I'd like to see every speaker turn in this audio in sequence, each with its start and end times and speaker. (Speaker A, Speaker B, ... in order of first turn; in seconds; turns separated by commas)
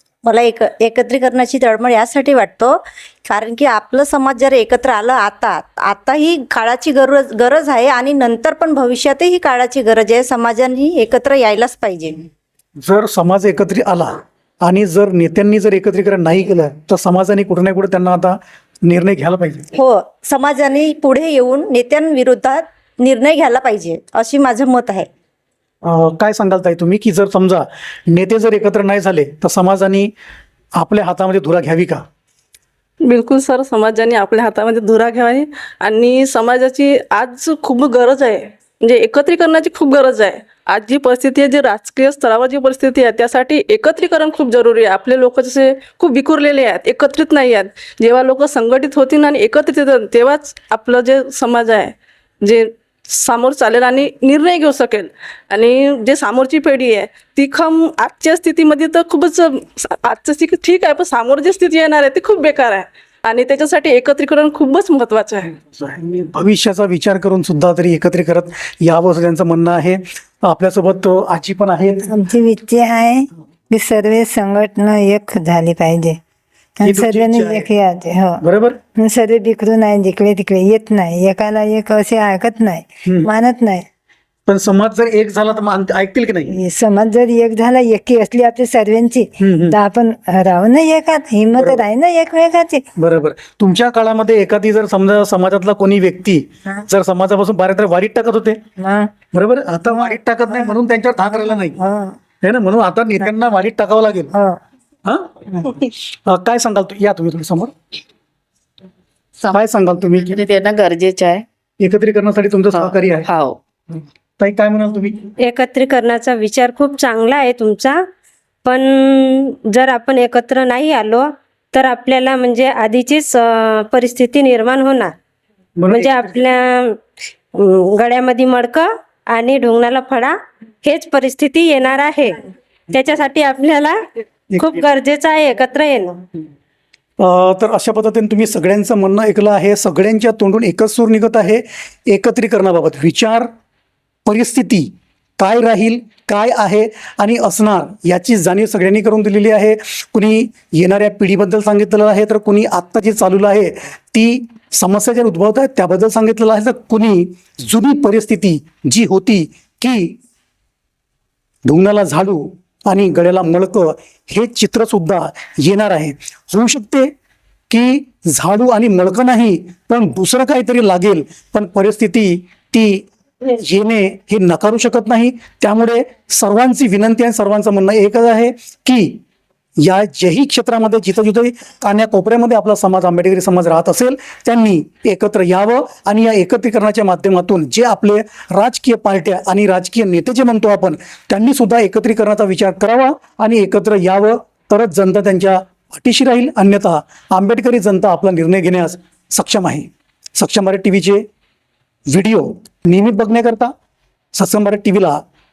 Speaker A: 0.2-12.2, Speaker B: 12.8-19.7, Speaker A: 19.8-25.1, Speaker B: 25.8-30.1, Speaker B: 30.8-32.0, Speaker C: 33.0-65.5, Speaker B: 65.7-72.1, Speaker D: 72.1-76.2, Speaker D: 76.8-78.4, Speaker B: 76.8-77.7, Speaker B: 78.4-78.8, Speaker D: 79.0-83.8, Speaker B: 84.5-86.5, Speaker D: 86.5-92.8, Speaker B: 89.4-89.8, Speaker B: 91.6-91.8, Speaker B: 93.0-98.6, Speaker D: 98.8-99.1, Speaker B: 99.3-101.8, Speaker D: 100.0-100.6, Speaker D: 101.8-102.2, Speaker B: 102.4-104.3, Speaker D: 104.3-104.6, Speaker B: 105.0-107.7, Speaker B: 109.5-110.4, Speaker E: 110.3-111.4, Speaker B: 111.8-113.3, Speaker E: 112.8-113.6, Speaker B: 114.4-115.2, Speaker F: 115.4-118.0, Speaker F: 118.7-125.1, Speaker B: 125.8-126.2, Speaker F: 125.9-127.0, Speaker F: 127.5-132.4, Speaker F: 132.9-134.0, Speaker B: 134.5-134.9, Speaker F: 134.6-136.2, Speaker B: 137.2-143.5, Speaker B: 144.3-160.2, Speaker B: 161.7-167.1, Speaker B: 167.7-179.2, Speaker B: 179.8-201.2, Speaker B: 202.1-203.7, Speaker B: 204.3-205.2